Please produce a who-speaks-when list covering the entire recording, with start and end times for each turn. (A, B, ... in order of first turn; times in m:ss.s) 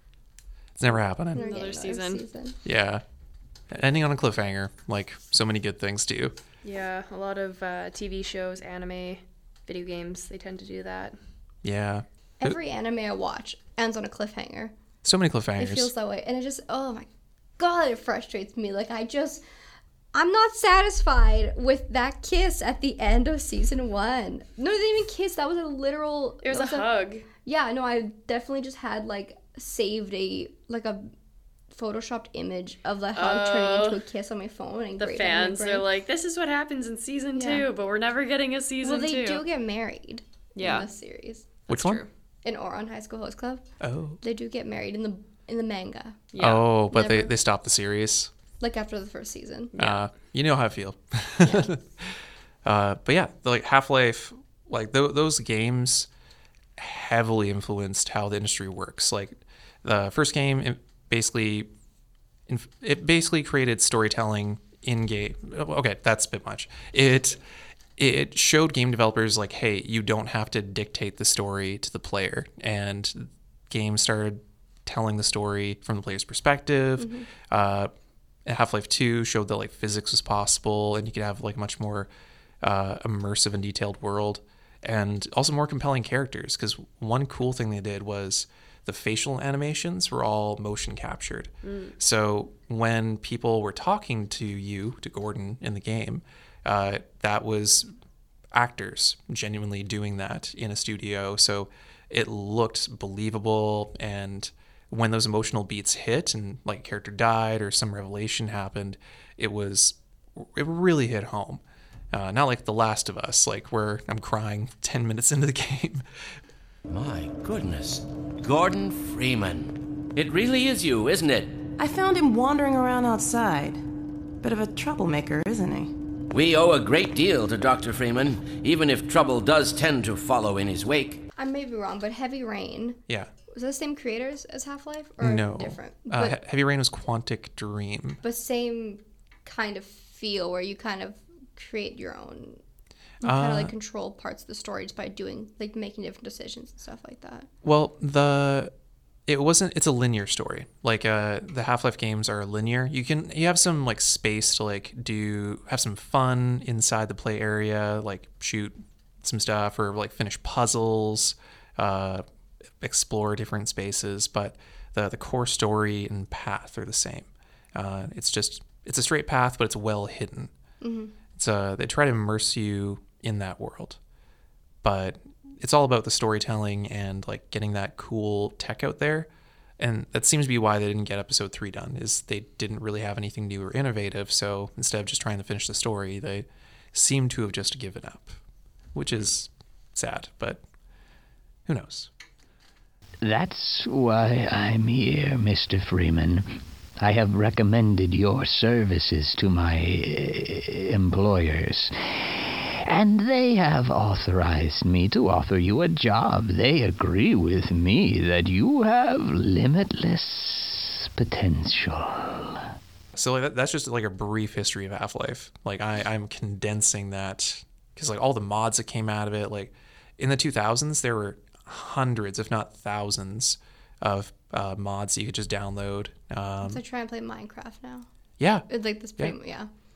0:00.8-0:01.5 A
0:01.3-0:02.2 B
0:01.3-0:02.6 C
0:02.6-0:03.0 A
0:03.7-0:06.4 A
0:06.6-0:11.2 B
0:11.6-0:12.6 A
0:12.4-0:14.7 C
0:15.0-0:15.9 A
0:15.6-0:17.0 C
0:17.6-0:19.4 C
0:20.1-0:26.9 C
0:26.4-0:27.3 B
0:27.4-0:31.1 C
0:31.7-0:35.9 C
0:33.1-0:34.0 B
0:35.0-0:39.4 B
0:37.3-0:37.7 C
0:38.8-0:41.5 C
0:40.6-0:40.9 B
0:41.7-0:42.1 B
0:41.7-0:42.0 A
0:42.4-0:43.6 C
0:43.8-0:44.2 A
0:44.2-0:46.2 C
0:46.3-0:46.7 B
0:46.4-0:48.3 A
0:46.9-0:47.3 C
0:48.6-0:49.7 C
0:49.8-0:50.0 B
0:49.8-0:52.1 A
0:52.6-0:56.1 A
0:56.8-1:01.7 A
1:02.5-1:07.4 A
1:08.0-1:17.9 A
1:17.0-1:17.3 C
1:18.4-1:22.1 A
1:22.6-1:37.9 A
1:31.6-1:31.9 B
1:38.5-1:56.0 A
1:56.9-2:01.6 D
2:01.8-2:03.8 E
2:04.4-2:05.9 E
2:06.3-2:11.2 D
2:11.4-2:16.4 C
2:15.2-2:18.2 A
2:18.2-2:22.6 C
2:23.2-2:27.5 C
2:23.2-2:23.7 A
2:27.6-2:28.7 A
2:29.3-2:42.2 A
2:42.8-2:50.5 A
2:50.8-2:51.1 C
2:51.3-2:54.0 A
2:54.8-3:08.4 A
3:08.9-3:10.6 A
3:11.7-3:12.1 A
3:13.2-3:32.7 F
3:33.1-3:46.8 A
3:46.6-3:48.1 C
3:48.4-3:48.7 A
3:48.7-3:49.7 C